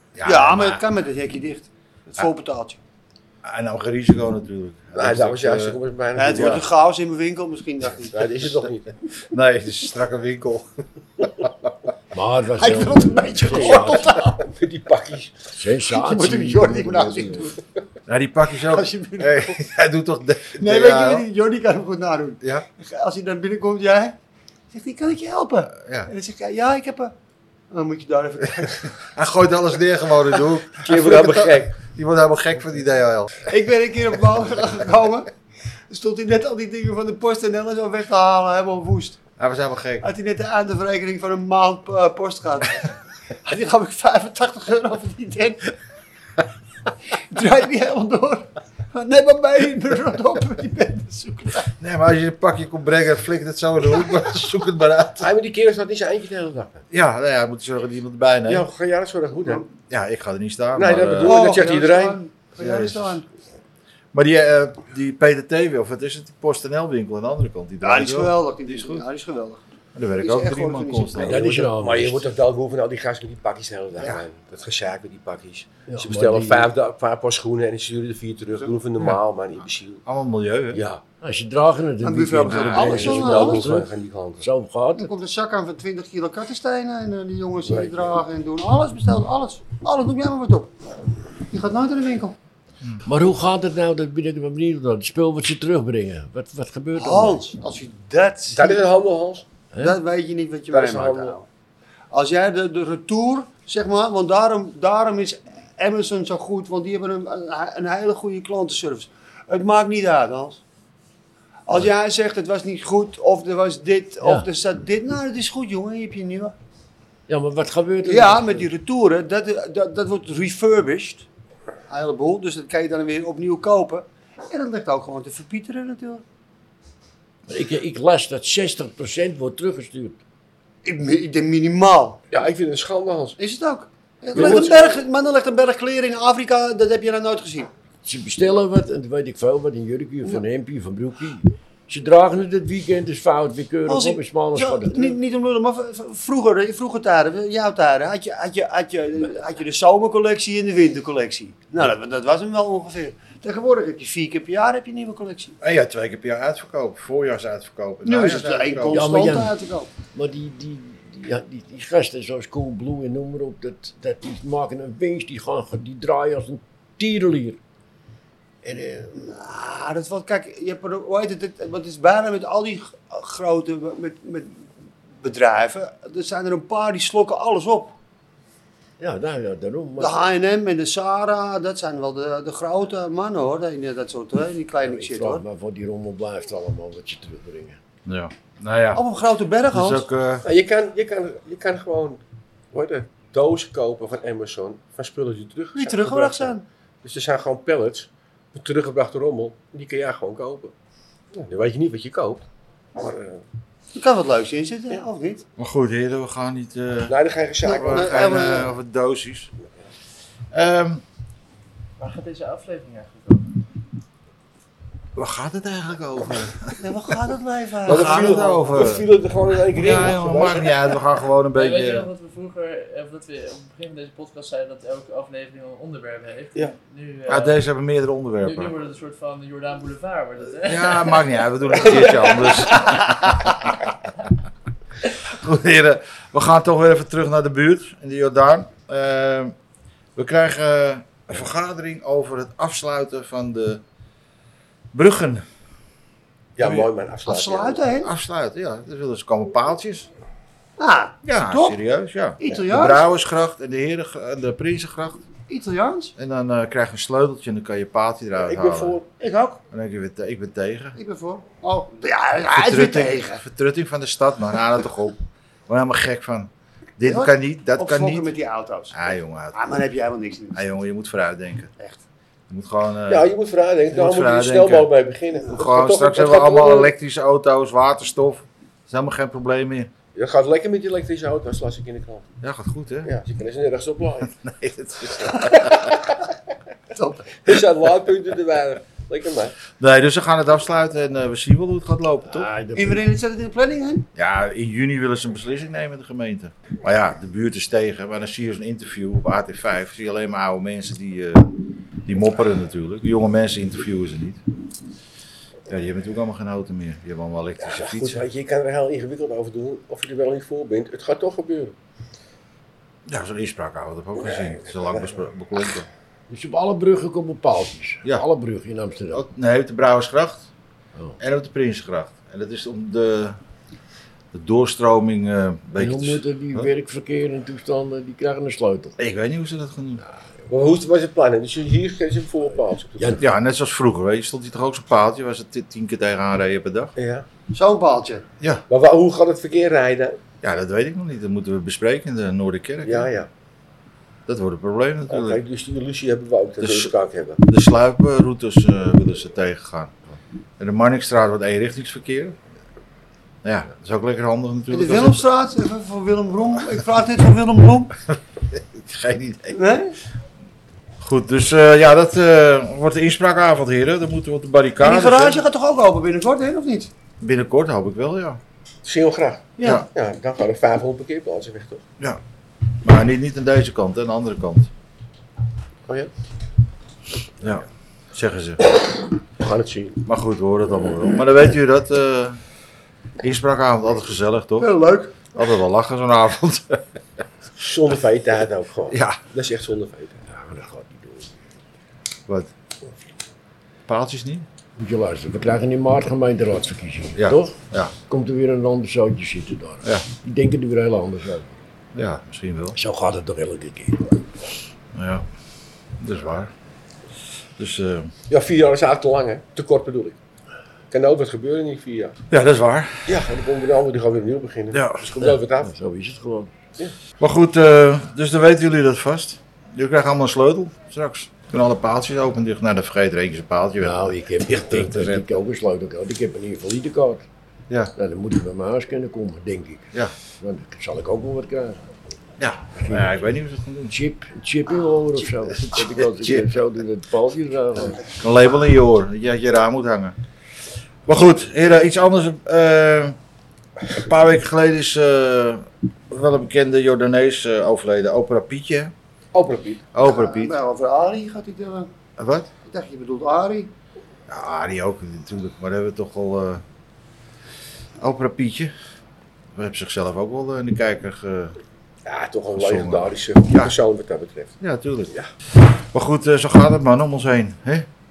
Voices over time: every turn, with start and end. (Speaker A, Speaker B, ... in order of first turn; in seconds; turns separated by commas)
Speaker A: 0.1-0.8, Speaker B: 0.2-2.8, Speaker A: 3.4-5.8, Speaker C: 5.0-6.6, Speaker B: 6.2-8.5, Speaker A: 6.3-6.6, Speaker C: 8.1-8.9, Speaker A: 9.3-10.7, Speaker A: 11.2-11.5, Speaker D: 12.1-14.2, Speaker B: 12.6-14.4, Speaker C: 13.5-15.3, Speaker D: 15.5-17.5, Speaker B: 15.8-17.6, Speaker A: 18.1-21.2, Speaker B: 18.7-19.6, Speaker B: 20.6-24.2, Speaker A: 22.4-22.6, Speaker B: 24.7-27.1, Speaker A: 25.8-26.1, Speaker B: 27.7-28.9, Speaker A: 29.0-33.5, Speaker C: 30.8-31.8, Speaker B: 31.0-31.5, Speaker B: 33.5-35.3, Speaker B: 35.9-39.2, Speaker A: 39.4-40.0, Speaker B: 40.0-45.7, Speaker B: 47.1-51.7, Speaker A: 51.8-55.3, Speaker C: 55.2-56.8, Speaker A: 56.9-58.6, Speaker C: 58.5-59.6, Speaker A: 59.9-61.5, Speaker C: 60.8-62.2, Speaker B: 61.2-63.2, Speaker A: 62.6-63.2, Speaker A: 64.1-69.0, Speaker B: 67.8-69.6, Speaker A: 69.9-71.7, Speaker B: 70.2-71.6, Speaker D: 71.2-72.3, Speaker C: 71.8-80.0, Speaker D: 75.9-76.7, Speaker A: 80.0-80.8, Speaker C: 80.7-81.0, Speaker D: 81.2-85.1, Speaker B: 82.0-83.7, Speaker A: 82.5-83.0, Speaker C: 82.6-84.5, Speaker B: 85.0-90.7, Speaker C: 87.6-88.2, Speaker B: 91.5-92.3, Speaker D: 93.0-97.4, Speaker B: 96.9-98.8, Speaker C: 98.5-99.4, Speaker D: 99.7-100.0, Speaker B: 99.8-101.5, Speaker C: 100.7-101.4, Speaker B: 102.1-110.6, Speaker B: 111.7-116.5, Speaker D: 114.2-114.5, Speaker D: 117.3-118.7, Speaker B: 118.0-121.2, Speaker B: 121.9-126.2, Speaker D: 127.5-130.2, Speaker B: 130.8-132.2, Speaker C: 132.3-133.4, Speaker B: 133.4-137.7, Speaker C: 134.3-134.8, Speaker D: 134.4-134.7, Speaker D: 138.0-145.2, Speaker B: 143.9-155.6, Speaker A: 155.6-159.1, Speaker B: 158.0-159.9, Speaker D: 158.9-167.6, Speaker D: 168.6-169.1, Speaker B: 169.1-174.6, Speaker B: 175.2-177.9, Speaker D: 179.0-180.2, Speaker B: 180.0-185.4, Speaker D: 184.8-187.8, Speaker A: 188.1-189.0, Speaker B: 188.9-190.0, Speaker A: 189.7-190.4, Speaker C: 190.4-192.2, Speaker C: 192.7-200.7, Speaker B: 195.8-196.6, Speaker C: 201.3-202.4, Speaker C: 203.0-203.4, Speaker B: 203.9-205.4, Speaker A: 205.6-209.5, Speaker C: 207.1-208.6, Speaker B: 207.6-208.7, Speaker A: 210.5-211.0, Speaker E: 212.0-213.5, Speaker A: 215.2-217.2, Speaker B: 216.8-218.6, Speaker C: 217.8-220.9, Speaker A: 217.8-219.1, Speaker A: 219.7-222.1, Speaker E: 221.5-227.6, Speaker A: 227.3-228.7, Speaker E: 228.4-231.2, Speaker A: 230.6-233.9, Speaker C: 231.8-232.7, Speaker A: 235.2-239.5, Speaker A: 240.2-243.8, Speaker A: 244.9-245.4, Speaker C: 246.6-247.8, Speaker A: 246.6-246.9, Speaker B: 247.2-248.1, Speaker A: 248.0-250.1, Speaker B: 250.8-251.8, Speaker A: 251.2-255.2, Speaker B: 252.4-253.0, Speaker B: 255.5-256.1, Speaker A: 256.2-259.0, Speaker C: 258.4-259.1, Speaker B: 259.2-259.6, Speaker A: 259.7-261.0, Speaker B: 260.9-263.4, Speaker A: 262.5-268.3, Speaker B: 267.1-269.0, Speaker A: 268.9-269.6, Speaker B: 269.5-270.7, Speaker A: 270.5-271.7, Speaker B: 271.8-272.0, Speaker A: 272.5-273.3, Speaker C: 273.1-276.9, Speaker A: 273.9-274.9, Speaker A: 275.5-279.9, Speaker C: 280.1-282.3, Speaker A: 282.4-283.1, Speaker C: 283.0-284.3, Speaker A: 284.4-286.0, Speaker C: 285.6-286.1, Speaker B: 286.9-287.3, Speaker C: 287.4-289.5, Speaker A: 289.8-292.5, Speaker D: 292.3-293.0, Speaker B: 292.7-294.1, Speaker A: 294.1-301.5, Speaker A: 302.1-304.4, Speaker A: 305.7-308.2, Speaker C: 307.6-311.7, Speaker A: 313.1-315.9, Speaker C: 314.2-315.0, Speaker D: 316.3-319.2, Speaker A: 319.1-320.5, Speaker A: 321.2-323.4, Speaker A: 324.3-326.7, Speaker D: 325.8-328.9, Speaker A: 329.0-330.0, Speaker C: 330.5-333.2, Speaker D: 333.0-333.2, Speaker A: 333.2-336.9, Speaker C: 336.9-337.2, Speaker B: 337.5-338.2, Speaker C: 338.7-340.2, Speaker A: 340.4-343.1, Speaker C: 342.8-343.3, Speaker A: 344.3-345.4, Speaker C: 345.1-347.4, Speaker A: 346.6-349.9, Speaker A: 350.6-352.4, Speaker A: 353.4-355.2, Speaker B: 354.7-357.9, Speaker A: 358.5-359.6, Speaker B: 359.5-359.9, Speaker A: 361.0-365.4, Speaker B: 364.8-366.9, Speaker A: 367.2-368.4, Speaker C: 368.8-371.8, Speaker B: 369.6-369.8, Speaker A: 369.6-369.9, Speaker A: 372.8-374.7, Speaker A: 377.4-378.6, Speaker C: 379.4-380.0, Speaker A: 380.0-382.4, Speaker A: 383.2-384.7, Speaker B: 384.6-385.1, Speaker A: 385.3-386.8, Speaker C: 387.6-390.2, Speaker A: 388.9-389.2, Speaker D: 390.3-391.4, Speaker A: 393.9-394.4, Speaker D: 394.8-401.5, Speaker A: 397.1-397.9, Speaker A: 401.9-402.8, Speaker D: 402.7-404.2, Speaker A: 404.9-405.2, Speaker A: 406.0-406.5, Speaker A: 407.6-408.1, Speaker C: 408.3-410.2, Speaker C: 410.9-412.2, Speaker A: 412.3-413.1, Speaker C: 413.1-415.7, Speaker A: 414.7-415.1, Speaker D: 415.2-416.5, Speaker A: 417.2-425.3, Speaker D: 423.8-427.2, Speaker D: 427.9-431.9, Speaker A: 432.4-433.9, Speaker D: 432.7-433.3, Speaker D: 433.9-438.1, Speaker A: 435.6-436.5, Speaker A: 438.2-440.1, Speaker A: 441.1-443.2, Speaker A: 443.9-448.9, Speaker C: 449.3-449.9, Speaker A: 449.9-450.5, Speaker B: 450.0-451.9, Speaker A: 452.2-452.5, Speaker B: 452.6-453.7, Speaker A: 454.3-456.6, Speaker A: 458.0-458.7, Speaker A: 459.6-461.5, Speaker C: 462.1-464.5, Speaker A: 462.6-463.7, Speaker A: 464.6-465.1, Speaker A: 465.7-467.9